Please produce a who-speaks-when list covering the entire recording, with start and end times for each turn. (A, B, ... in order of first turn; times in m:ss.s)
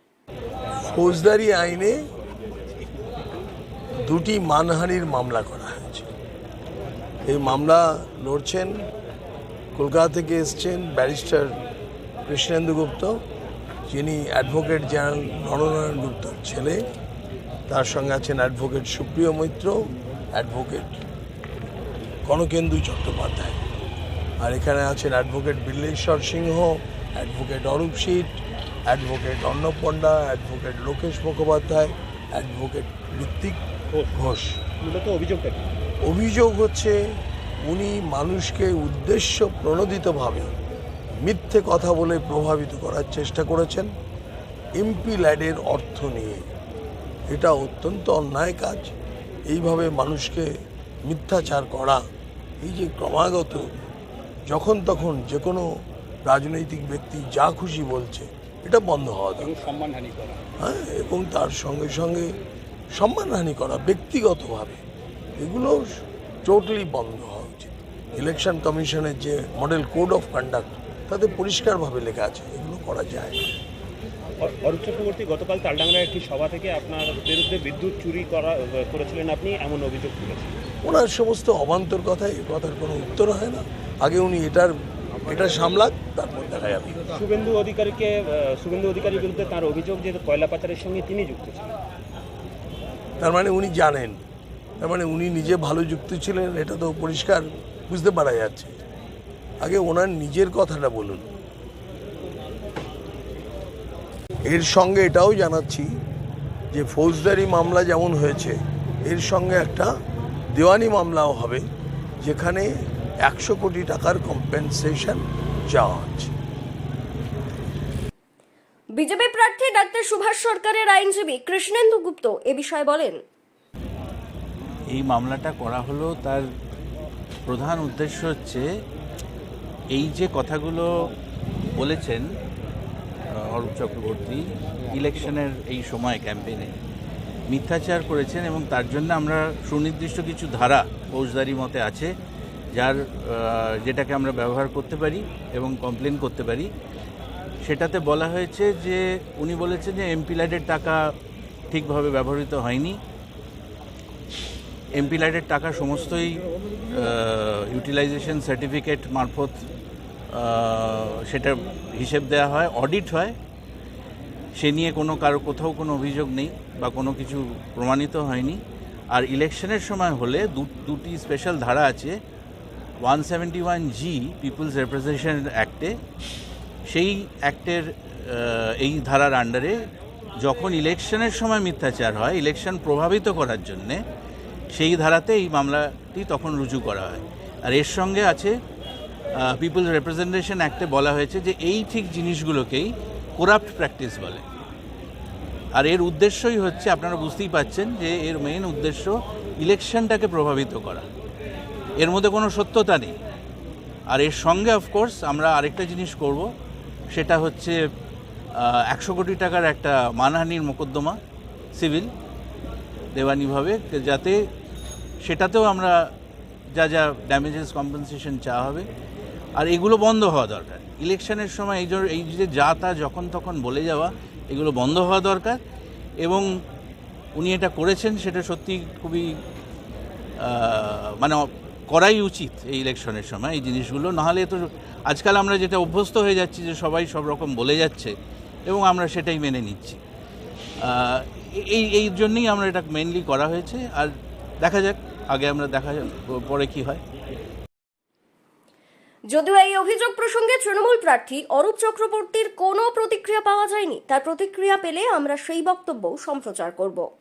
0:00.8-0:02.0 A
0:04.0-0:06.1 A
0:07.2-0:08.8 A
0:09.7-0:11.6 A
0:12.3-0:13.2 A
0:13.9-0:16.8 A
0:17.7-0:21.0 A
0:22.3-0:23.6 A
0:24.4-0:28.3 A
0:28.9-0:33.6 A
0:34.1-0:34.6 A
0:34.8-0:35.6 B
0:36.0-0:37.0 A
0:37.6-0:40.5 A
0:41.2-0:43.9 A
0:44.8-0:46.5 A
0:47.3-0:48.9 A
0:49.5-0:50.5 A
0:51.0-0:52.0 A
0:52.6-0:53.8 A
0:54.5-0:55.7 A
0:56.2-0:59.5 A
0:59.4-1:00.4 B
1:00.6-1:02.3 A
1:02.9-1:04.8 A
1:05.4-1:13.5 A
1:14.4-1:20.6 B
1:20.8-1:27.1 A
1:27.1-1:31.7 B
1:33.2-1:34.2 A
1:34.8-1:38.8 A
1:39.6-1:41.3 A
1:44.5-1:45.9 A
1:46.7-1:49.9 A
1:50.5-1:51.6 A
1:52.2-1:52.7 A
1:53.2-1:56.3 A
1:58.9-2:03.2 C
2:04.9-2:06.4 D
2:07.4-2:08.6 D
2:09.9-2:11.1 D
2:11.7-2:12.2 D
2:13.3-2:16.8 D
2:17.5-2:22.1 D
2:22.7-2:26.7 D
2:27.6-2:31.0 D
2:31.7-2:33.0 D
2:35.0-2:39.6 D
2:40.3-2:43.3 D
2:44.6-2:48.6 D
2:49.1-2:52.2 D
2:53.0-2:55.9 D
2:56.9-2:59.8 D
3:00.4-3:04.0 D
3:04.7-3:08.5 D
3:09.4-3:14.4 D
3:15.7-3:21.0 D
3:22.0-3:23.2 D
3:24.1-3:26.5 D
3:27.1-3:27.8 D
3:28.6-3:31.2 D
3:31.7-3:32.1 D
3:33.1-3:34.4 D
3:35.2-3:35.9 D
3:36.7-3:38.8 D
3:39.6-3:45.6 D
3:47.4-3:49.3 D
3:50.4-3:58.1 D
3:58.7-4:00.0 D
4:00.8-4:07.0 D
4:09.3-4:17.0 C